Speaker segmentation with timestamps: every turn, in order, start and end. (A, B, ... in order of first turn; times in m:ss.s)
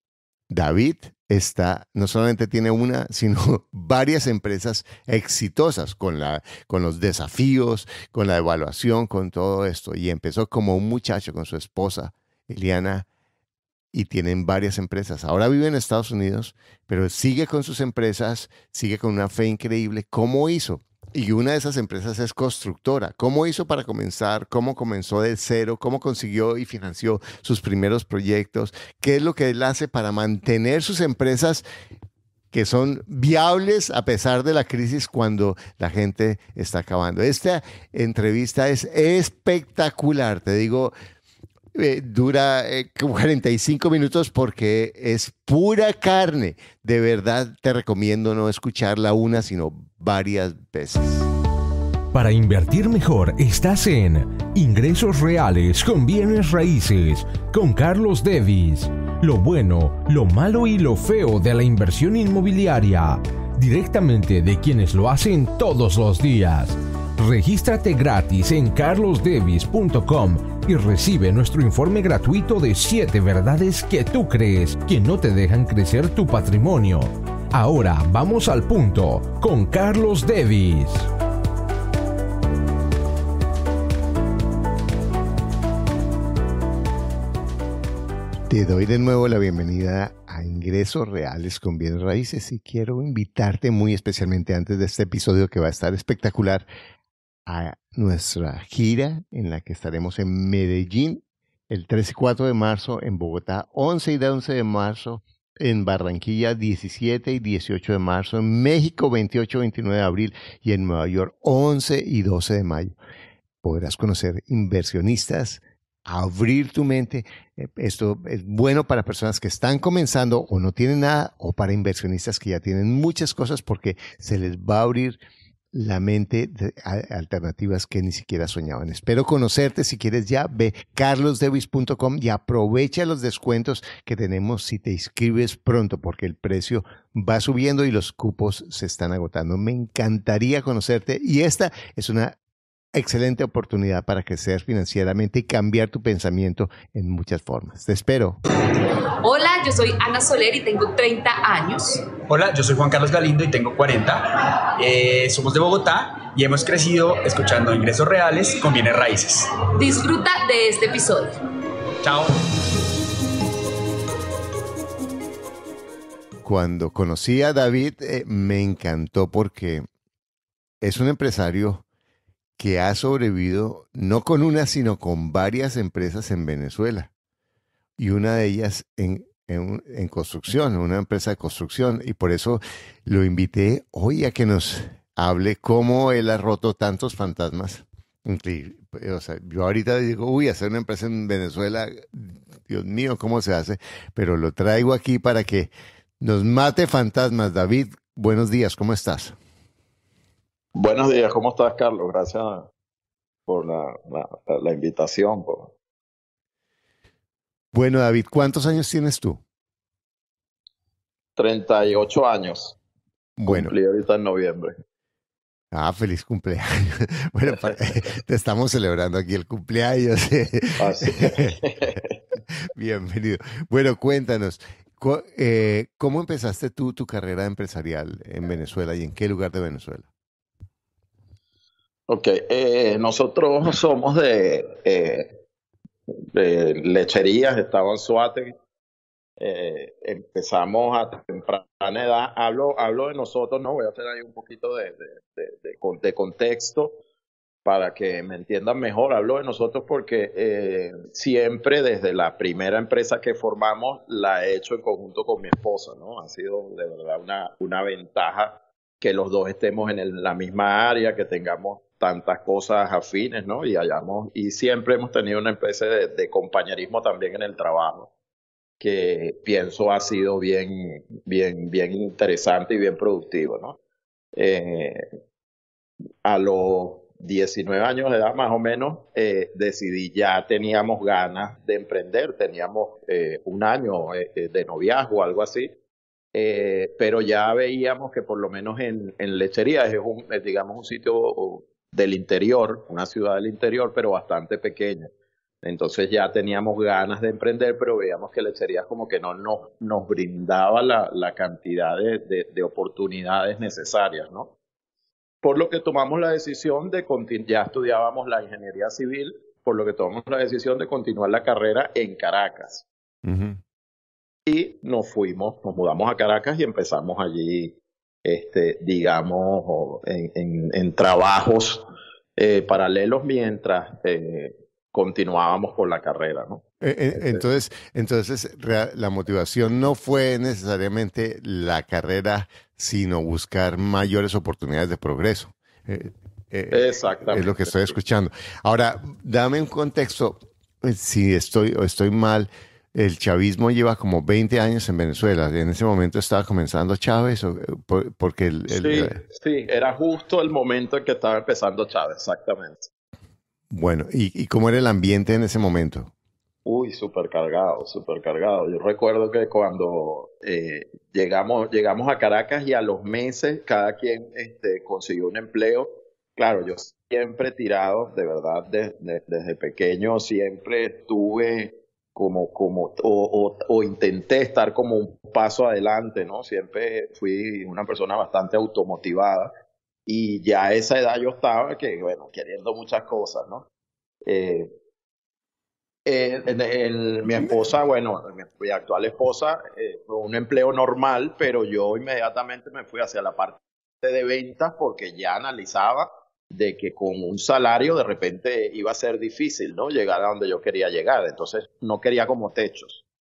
0:00.5-0:13.0 A
0:13.9-0:31.6 A
0:32.5-0:40.9 A
0:41.7-0:51.3 A
0:52.1-1:21.1 B
1:28.5-1:36.6 A
1:37.5-1:52.9 A
1:53.6-2:05.2 A
2:05.7-2:22.4 A
2:22.9-2:28.4 A
2:29.2-2:32.1 C
2:32.2-2:39.5 D
2:39.8-2:41.4 C
2:42.0-2:42.4 D
2:46.4-2:49.8 A
2:50.8-2:51.8 A
2:52.6-2:57.1 A
2:58.0-3:19.3 A
3:20.7-3:22.7 E
3:23.5-3:25.7 E
3:27.7-3:29.4 A
3:31.4-3:32.8 E
3:33.4-3:33.7 A
3:33.5-3:34.8 E
3:35.7-3:42.0 A
3:40.8-3:42.2 E
3:42.7-3:50.1 A
3:52.1-3:55.4 E
3:56.3-3:58.5 E
3:59.4-4:07.0 E
4:07.6-4:28.1 E
4:28.8-4:33.8 E
4:34.3-4:35.0 E
4:36.2-4:45.8 E
4:46.3-4:55.1 E
4:55.6-5:04.6 E
5:05.4-5:12.8 E
5:13.2-5:13.6 A
5:14.4-5:26.6 E
5:26.8-5:49.2 A
5:36.7-5:37.9 E
5:48.7-5:52.9 E
5:53.7-5:56.1 A
5:56.6-6:19.5 E
6:20.0-6:23.7 E
6:24.2-6:24.7 E
6:26.0-6:43.0 E